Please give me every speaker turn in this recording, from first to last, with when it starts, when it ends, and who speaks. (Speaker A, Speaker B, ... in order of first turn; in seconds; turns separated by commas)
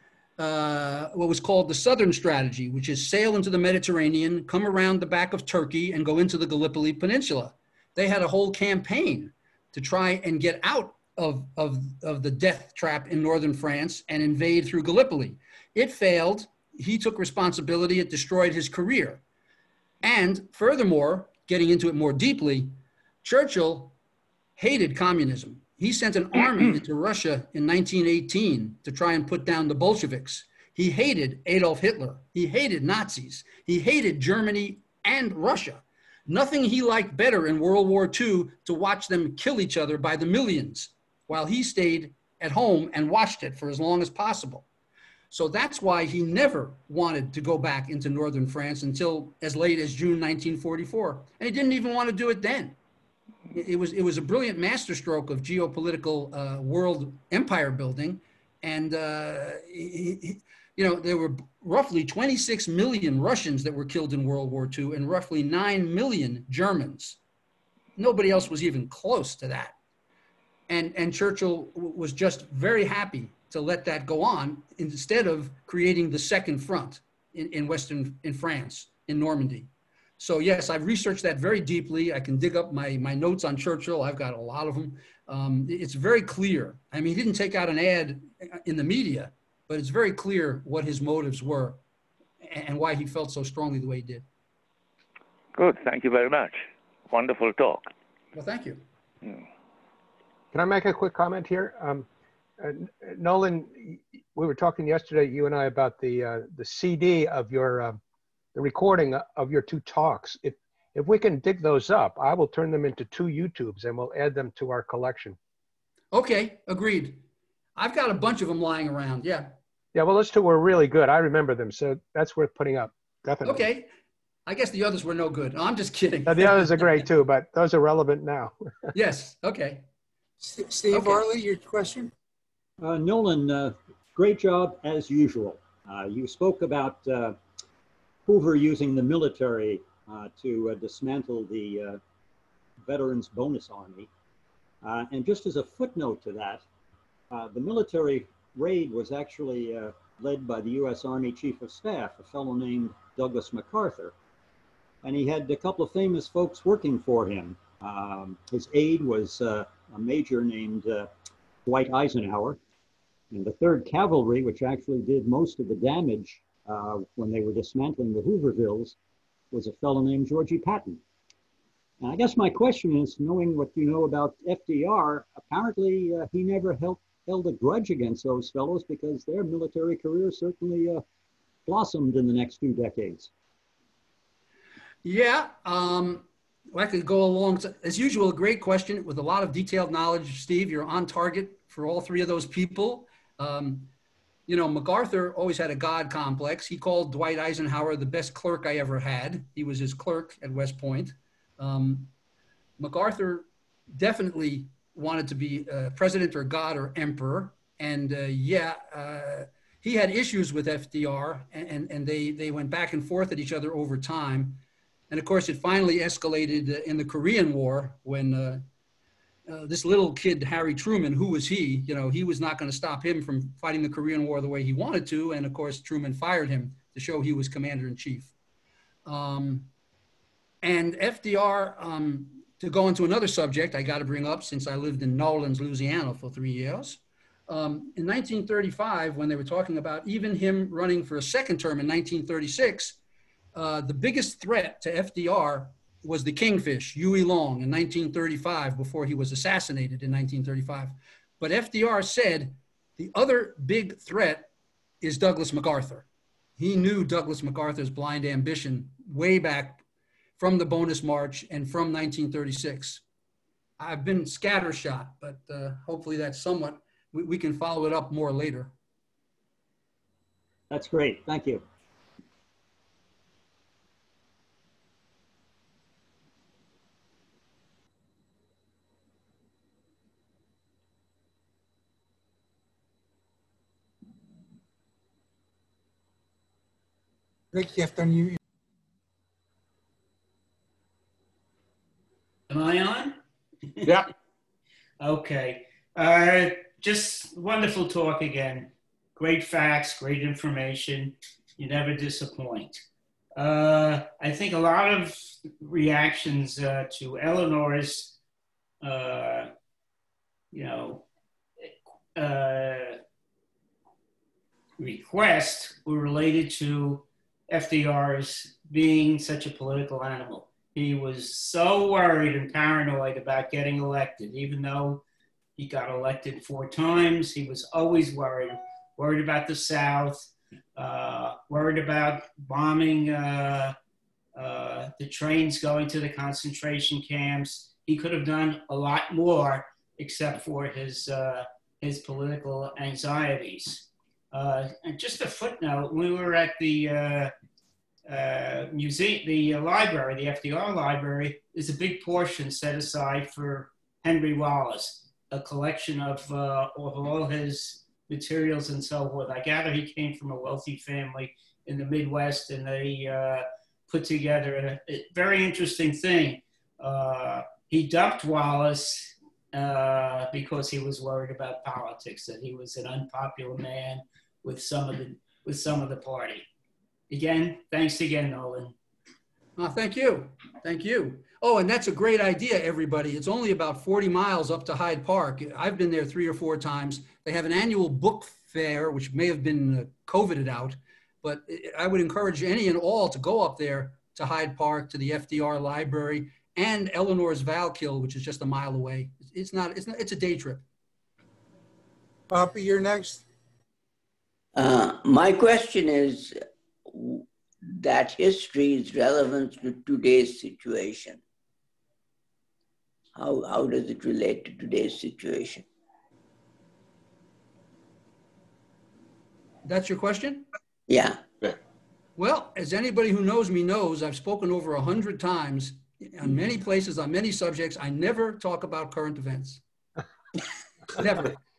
Speaker A: 0.4-19.2, Speaker A: 20.0-23.9, Speaker A: 24.6-44.6, Speaker A: 45.3-52.8, Speaker A: 53.5-67.2, Speaker A: 68.0-69.7, Speaker A: 70.7-91.8, Speaker A: 92.4-94.2, Speaker B: 95.5-97.9, Speaker A: 98.3-98.8, Speaker C: 100.5-102.1, Speaker C: 102.6-108.0, Speaker C: 108.5-115.4, Speaker A: 116.1-117.2, Speaker A: 117.8-119.5, Speaker C: 119.9-123.7, Speaker A: 123.4-123.9, Speaker A: 124.5-127.0, Speaker C: 126.3-128.5, Speaker A: 128.9-129.8, Speaker D: 130.4-132.1, Speaker A: 130.9-131.2, Speaker E: 132.8-137.4, Speaker E: 138.2-142.0, Speaker E: 142.8-144.1, Speaker E: 144.8-146.7, Speaker E: 147.3-154.1, Speaker E: 155.0-161.1, Speaker E: 161.6-162.6, Speaker E: 163.3-169.0, Speaker E: 169.5-171.0, Speaker E: 172.0-181.0, Speaker E: 181.7-183.3, Speaker A: 185.0-193.9, Speaker A: 194.5-202.1, Speaker A: 202.8-218.6, Speaker A: 219.5-228.3, Speaker A: 229.1-229.7, Speaker A: 230.6-243.0, Speaker A: 243.5-254.5, Speaker A: 255.0-256.1, Speaker A: 256.6-259.8, Speaker A: 260.4-263.0, Speaker A: 263.8-268.7, Speaker E: 270.7-271.6, Speaker D: 287.5-288.4, Speaker F: 292.5-293.2, Speaker F: 295.0-302.8, Speaker F: 303.4-308.2, Speaker F: 308.8-309.5, Speaker F: 310.5-311.1, Speaker F: 312.1-313.0, Speaker F: 314.8-325.0, Speaker F: 325.6-333.7, Speaker F: 334.3-347.3, Speaker F: 348.1-376.5, Speaker F: 377.1-378.7, Speaker A: 379.6-400.6, Speaker D: 402.3-403.2, Speaker G: 404.6-411.2, Speaker G: 413.1-415.6, Speaker A: 419.6-420.4, Speaker G: 420.9-421.2, Speaker A: 422.2-429.6, Speaker A: 430.9-431.3